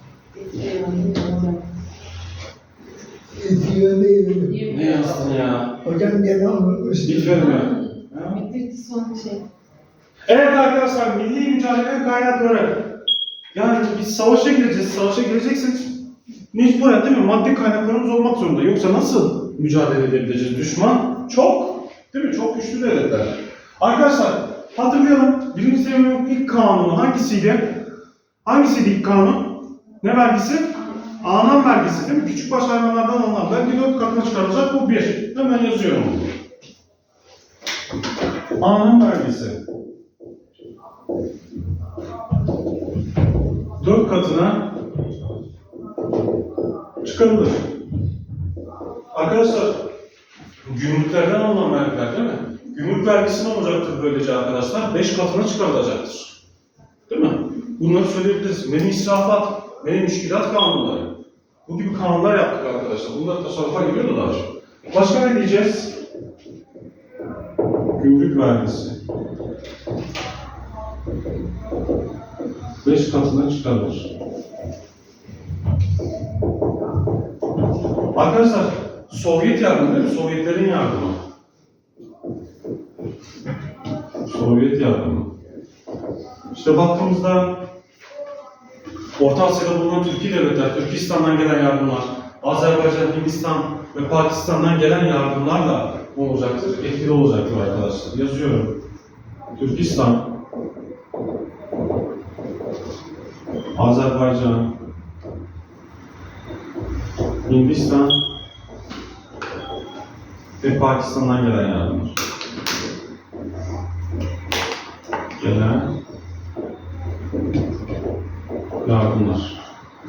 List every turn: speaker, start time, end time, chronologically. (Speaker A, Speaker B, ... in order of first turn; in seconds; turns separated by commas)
Speaker A: 0.3-1.7, Speaker B: 3.4-4.6, Speaker A: 4.5-5.4, Speaker C: 4.7-5.8, Speaker B: 5.8-7.5, Speaker C: 7.0-8.4, Speaker A: 7.3-9.4, Speaker C: 10.3-12.9, Speaker C: 13.5-16.0, Speaker C: 16.5-27.8, Speaker C: 28.4-36.3, Speaker C: 38.6-39.6, Speaker C: 43.8-44.8, Speaker C: 47.0-47.7, Speaker C: 49.1-49.8, Speaker C: 50.6-56.4, Speaker C: 57.1-61.1, Speaker C: 61.7-66.0, Speaker C: 68.0-69.0, Speaker C: 72.8-74.1, Speaker C: 78.1-81.2, Speaker C: 84.2-85.3, Speaker C: 86.5-87.6, Speaker C: 89.2-98.8, Speaker C: 99.6-100.3, Speaker C: 103.7-104.7, Speaker C: 107.5-108.2, Speaker C: 110.6-112.2, Speaker C: 115.4-115.9, Speaker C: 118.8-119.6